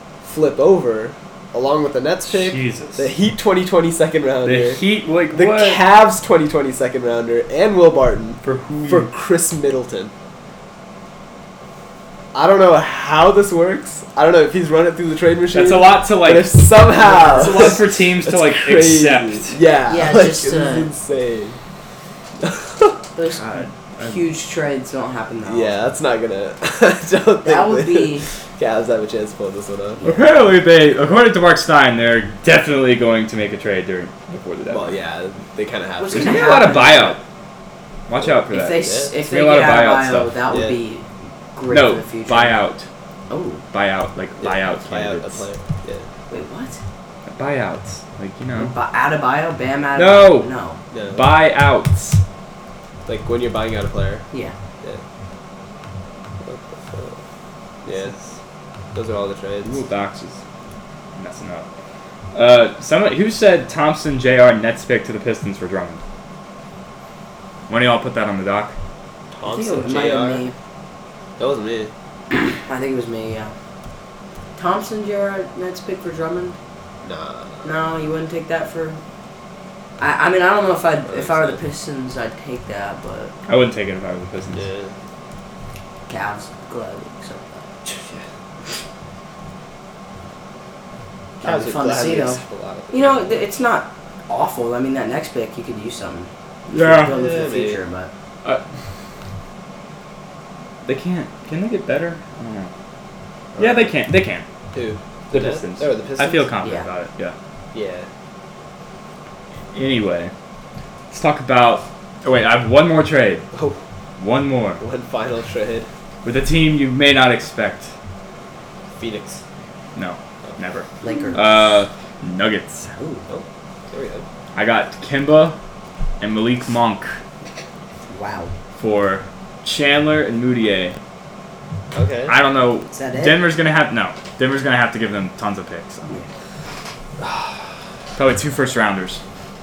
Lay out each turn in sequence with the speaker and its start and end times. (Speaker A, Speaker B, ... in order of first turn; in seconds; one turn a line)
Speaker A: 0.2-10.1
Speaker B: 2.3-3.1
Speaker B: 4.4-5.8
Speaker B: 8.4-9.1
Speaker A: 12.3-21.6
Speaker B: 15.5-19.6
Speaker C: 16.9-17.7
Speaker C: 19.9-20.9
Speaker A: 22.4-23.0
Speaker C: 23.1-25.8
Speaker B: 23.4-24.2
Speaker A: 25.5-30.0
Speaker C: 27.4-28.3
Speaker C: 30.0-30.4
Speaker B: 30.0-35.0
Speaker A: 34.7-37.0
Speaker C: 36.0-37.2
Speaker B: 36.1-37.2
Speaker B: 38.1-40.3
Speaker A: 38.2-39.1
Speaker C: 38.5-42.6
Speaker A: 40.5-40.8
Speaker B: 41.7-42.9
Speaker C: 43.3-43.6
Speaker B: 43.7-45.5
Speaker A: 44.4-46.1
Speaker C: 46.3-46.8
Speaker B: 47.3-48.7
Speaker C: 48.6-50.8
Speaker B: 50.0-50.5
Speaker A: 50.9-51.4
Speaker B: 51.1-52.2
Speaker A: 53.1-54.3
Speaker A: 56.4-57.2
Speaker A: 57.9-58.1
Speaker B: 57.9-58.2
Speaker A: 58.9-59.8
Speaker B: 59.6-60.4
Speaker B: 61.2-61.7
Speaker B: 62.3-66.0
Speaker B: 67.7-68.8
Speaker A: 69.3-70.4
Speaker C: 69.5-70.5
Speaker A: 71.4-71.9
Speaker C: 72.6-73.5
Speaker C: 74.6-76.6
Speaker A: 77.0-77.7
Speaker C: 77.6-79.0
Speaker C: 80.0-83.3
Speaker A: 81.1-81.6
Speaker B: 83.5-84.7
Speaker A: 84.5-84.9
Speaker C: 86.1-87.7
Speaker A: 87.9-88.2
Speaker A: 91.4-93.4
Speaker C: 91.4-98.1
Speaker B: 96.7-97.2
Speaker A: 96.9-97.8
Speaker B: 100.8-102.7
Speaker A: 103.5-103.9
Speaker B: 103.6-104.5
Speaker A: 104.7-106.5
Speaker B: 105.3-107.3
Speaker C: 106.6-106.9
Speaker A: 107.7-108.1
Speaker B: 109.7-110.3
Speaker B: 111.1-113.5
Speaker A: 113.5-113.8
Speaker B: 114.2-114.8
Speaker A: 114.8-115.9
Speaker B: 116.2-117.9
Speaker A: 119.0-119.4
Speaker B: 120.0-122.9
Speaker C: 121.0-121.5
Speaker C: 123.0-123.2
Speaker A: 123.3-124.2
Speaker B: 124.5-125.6
Speaker B: 126.2-127.2
Speaker C: 128.1-128.5
Speaker B: 128.8-131.0
Speaker A: 131.9-132.3
Speaker B: 132.3-136.1
Speaker C: 132.9-133.4
Speaker A: 137.2-137.7
Speaker B: 138.2-139.2